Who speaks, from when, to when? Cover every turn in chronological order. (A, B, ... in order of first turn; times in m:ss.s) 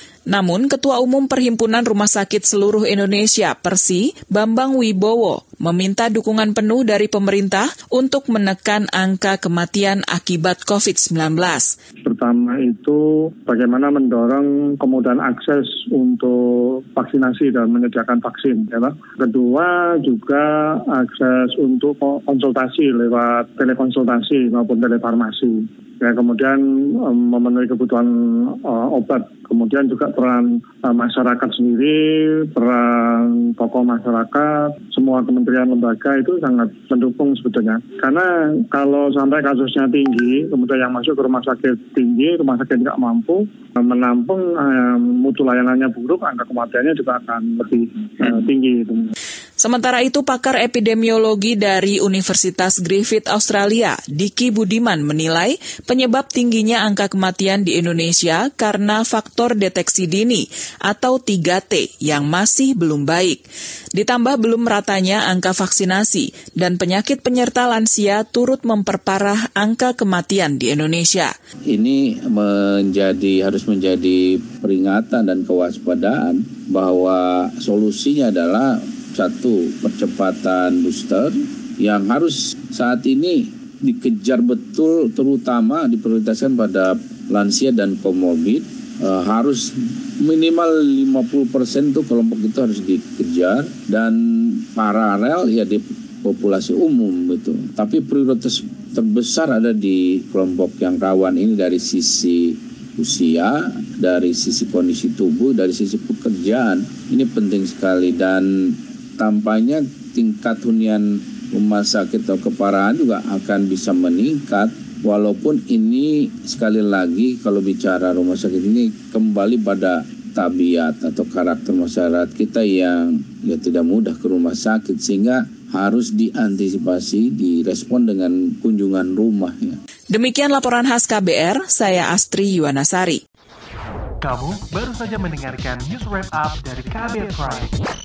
0:00.3-0:11.7 A
0:12.1-0:16.4 B
0:16.9-0:28.1 B
0:28.6-0:32.0 B
0:32.5-0:49.1 B
0:49.6-1:03.3 A
1:04.0-1:11.3 A
1:11.7-2:09.8 C
2:10.1-2:13.2 A
2:14.2-2:17.8 D